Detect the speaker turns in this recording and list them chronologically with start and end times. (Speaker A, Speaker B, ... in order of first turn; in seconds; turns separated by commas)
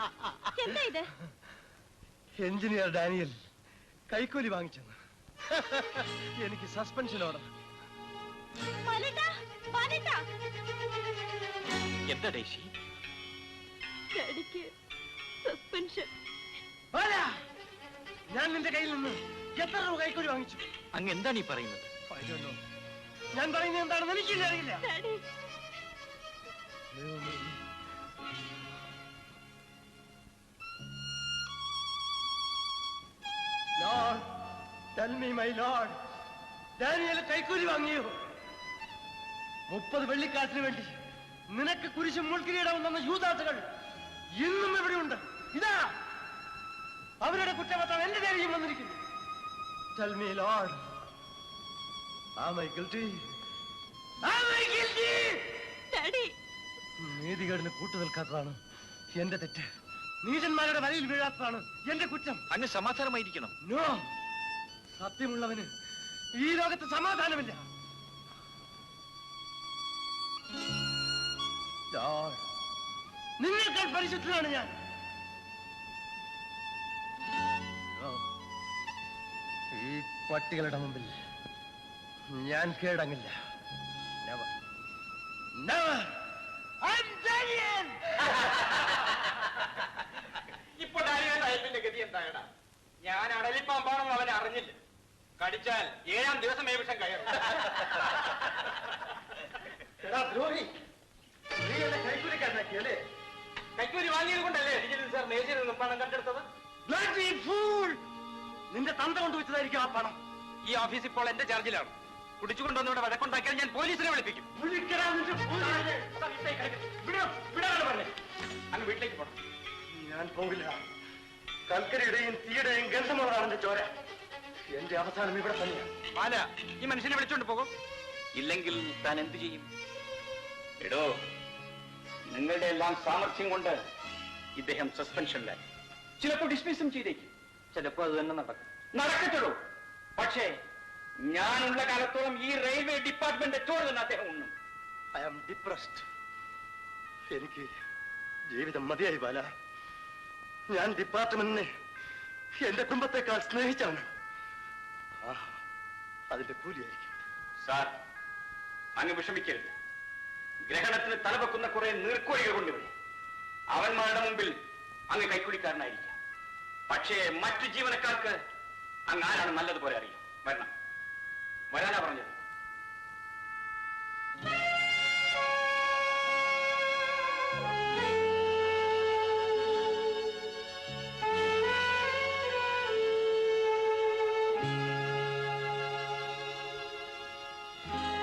Speaker A: 0.6-1.1, Speaker B: 2.4-3.4, Speaker B: 4.1-7.5, Speaker A: 8.9-10.2, Speaker C: 12.1-12.7, Speaker A: 14.1-14.7, Speaker A: 15.4-16.1, Speaker B: 16.9-17.4, Speaker B: 18.3-20.7, Speaker C: 20.9-21.9, Speaker B: 22.1-22.6, Speaker B: 23.3-24.9, Speaker A: 24.9-25.2, Speaker B: 26.9-27.6, Speaker B: 33.8-34.3, Speaker B: 35.0-36.0, Speaker B: 36.8-38.2, Speaker B: 39.7-41.0, Speaker B: 41.5-43.7, Speaker B: 44.4-45.9, Speaker B: 47.2-49.0, Speaker B: 50.0-50.9, Speaker B: 52.4-53.3, Speaker B: 54.2-55.6, Speaker A: 55.9-56.3, Speaker B: 57.0-58.6, Speaker B: 59.2-59.7, Speaker B: 60.2-62.4, Speaker C: 62.5-63.5, Speaker B: 63.6-64.1, Speaker B: 65.0-65.7, Speaker B: 66.4-67.6, Speaker B: 71.9-72.4, Speaker B: 73.4-74.7, Speaker B: 78.0-78.2, Speaker B: 79.7-81.2, Speaker B: 82.3-83.3, Speaker B: 84.2-84.5, Speaker B: 85.6-86.2, Speaker B: 86.8-88.3, Speaker D: 90.8-92.5, Speaker D: 93.0-94.8, Speaker D: 95.4-98.0, Speaker B: 101.8-102.7, Speaker D: 103.8-106.5, Speaker B: 106.8-108.0, Speaker B: 108.7-110.2, Speaker D: 110.7-114.5, Speaker B: 114.6-115.6, Speaker D: 115.2-118.1, Speaker D: 118.7-119.4, Speaker B: 119.9-120.8, Speaker B: 121.7-123.9, Speaker B: 124.7-125.9, Speaker D: 126.2-127.7, Speaker D: 128.4-129.7, Speaker D: 130.8-131.1, Speaker D: 132.3-133.8, Speaker D: 134.6-135.6, Speaker D: 136.2-139.6, Speaker D: 140.2-140.5, Speaker D: 141.2-144.5, Speaker B: 145.2-146.1, Speaker B: 147.3-147.7, Speaker B: 148.5-149.5, Speaker B: 150.7-151.7, Speaker B: 152.6-154.1, Speaker B: 155.2-155.6, Speaker B: 156.3-157.2, Speaker D: 157.6-157.9, Speaker D: 159.0-159.7, Speaker D: 160.7-162.9, Speaker D: 163.7-164.5, Speaker D: 165.1-166.2, Speaker D: 166.9-168.4, Speaker D: 169.1-170.7, Speaker D: 171.7-172.4